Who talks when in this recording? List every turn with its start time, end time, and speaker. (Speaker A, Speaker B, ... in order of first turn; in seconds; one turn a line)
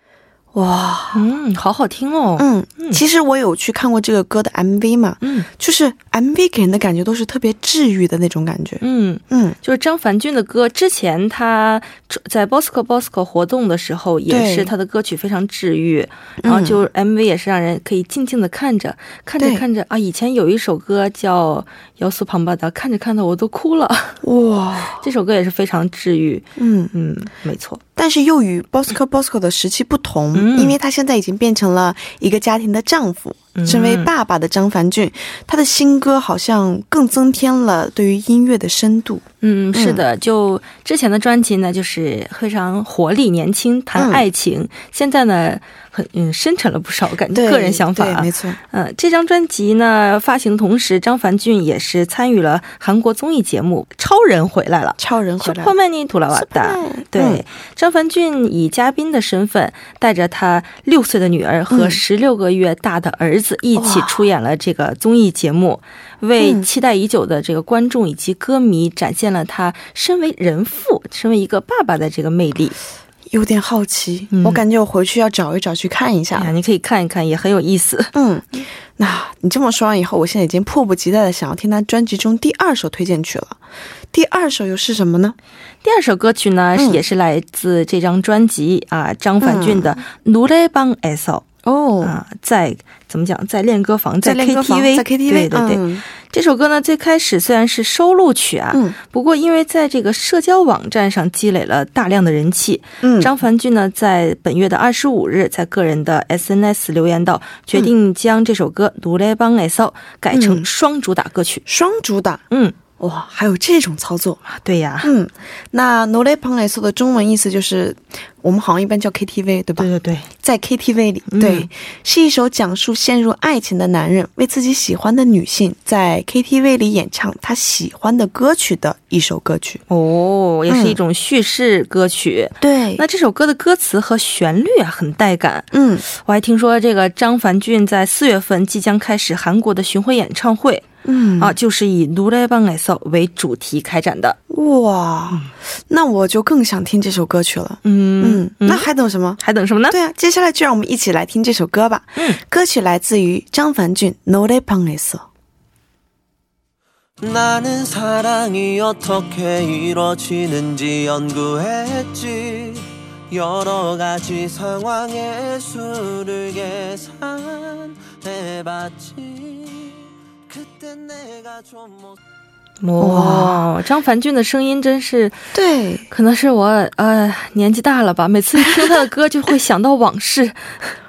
Speaker A: 0.5-1.2
Speaker B: 1.1-3.0
Speaker A: 2.4-9.6
Speaker B: 5.2-5.5
Speaker B: 8.8-24.2
Speaker A: 14.3-14.7
Speaker A: 16.4-16.8
Speaker A: 24.2-25.0
Speaker B: 25.0-27.8
Speaker A: 26.6-26.9
Speaker A: 28.0-40.0
Speaker B: 30.3-30.8
Speaker B: 33.5-34.1
Speaker B: 39.4-72.8
Speaker A: 44.0-44.2
Speaker A: 47.3-48.6
Speaker A: 55.0-55.7
Speaker A: 56.3-57.4
Speaker A: 61.7-62.0
Speaker A: 63.8-64.2
Speaker A: 66.4-66.7
Speaker A: 73.3-76.5
Speaker B: 74.3-74.6
Speaker B: 76.3-78.1
Speaker A: 78.1-83.6
Speaker A: 84.1-85.3
Speaker B: 85.8-91.5
Speaker A: 86.8-87.0
Speaker A: 89.4-90.0
Speaker A: 91.6-92.2
Speaker B: 92.0-111.6
Speaker A: 94.2-96.0
Speaker A: 103.0-103.3
Speaker A: 110.3-110.7
Speaker A: 111.7-112.4
Speaker B: 112.5-112.8
Speaker A: 113.0-114.4
Speaker B: 114.5-115.1
Speaker A: 115.0-119.9
Speaker B: 119.8-120.3
Speaker A: 120.4-129.8
Speaker B: 121.3-121.7
Speaker B: 129.9-140.9
Speaker A: 130.7-131.0
Speaker A: 132.6-133.0
Speaker A: 135.7-136.0
Speaker A: 141.0-141.5
Speaker B: 141.4-144.4
Speaker A: 144.5-155.3
Speaker B: 147.8-148.9
Speaker B: 149.4-149.9
Speaker C: 157.2-172.2
Speaker B: 172.8-175.4
Speaker A: 173.0-173.7
Speaker A: 175.5-176.1
Speaker B: 176.1-180.9